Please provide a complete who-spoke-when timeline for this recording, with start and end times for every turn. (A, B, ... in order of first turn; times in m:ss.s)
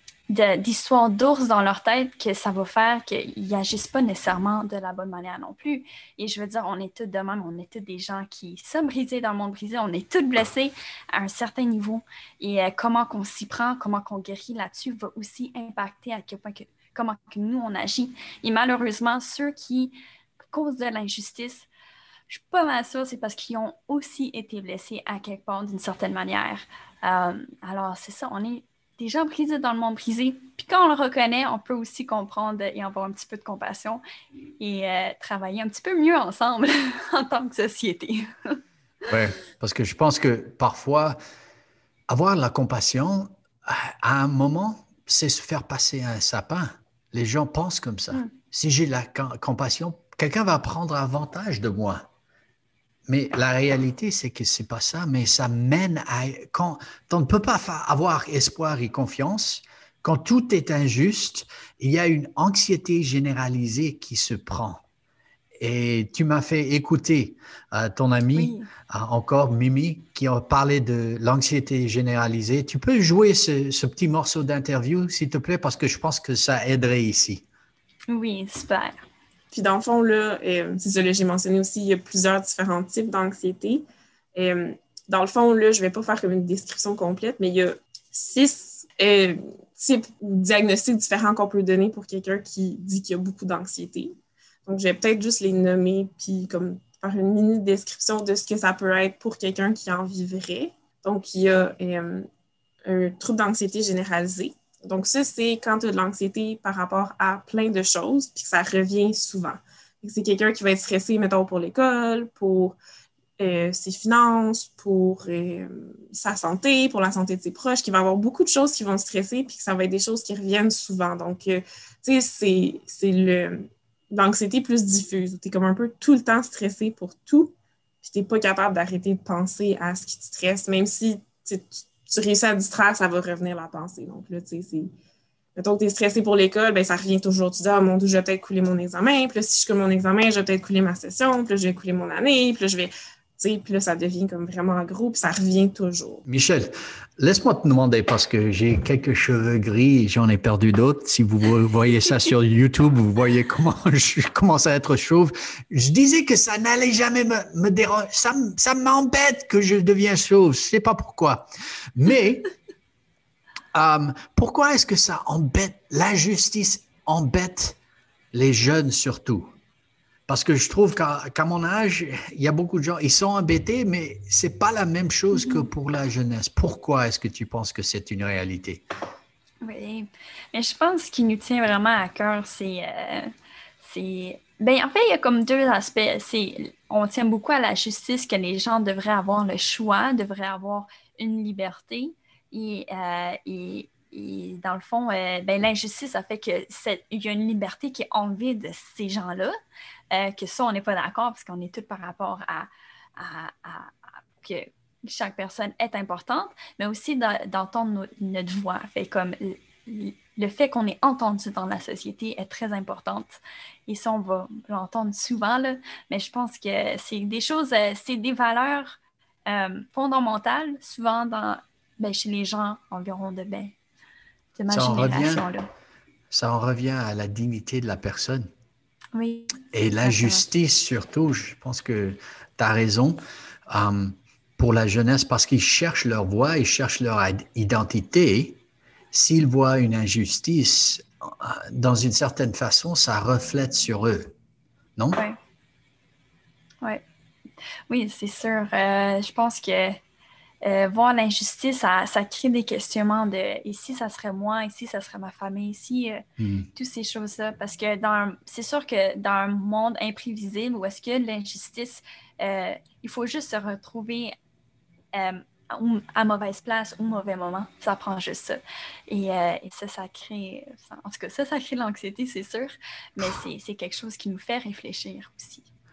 0:00.3-0:19.9 A
0:20.5-0:21.7 A
0:22.3-0:34.0 A
0:34.6-0:38.6 A
0:39.0-0:41.2 B
0:42.1-0:52.0 B
0:53.1-1:04.8 B
1:05.6-1:17.4 B
1:08.3-1:08.7 A
1:18.1-1:19.0 A
1:19.5-1:23.8 C
1:24.3-1:42.3 C
1:42.8-1:52.8 C
1:53.4-2:14.9 C
2:15.6-2:26.2 C
2:26.2-2:42.5 B
2:43.7-2:47.8 B
2:48.3-2:49.5 B
2:50.3-2:58.8 B
2:55.3-2:55.7 A
2:59.6-3:19.6 A
3:20.1-3:43.7 A
3:44.5-3:45.6 A
3:44.7-3:45.4 B
3:46.3-3:48.5 B
3:49.1-3:50.4 A
3:49.7-3:58.6 B
3:59.1-4:04.3 B
4:05.1-4:05.4 A
4:07.9-4:10.0 A
4:10.6-4:16.2 A
4:16.4-4:16.7 B
4:16.7-4:24.3 A
4:25.1-4:35.7 A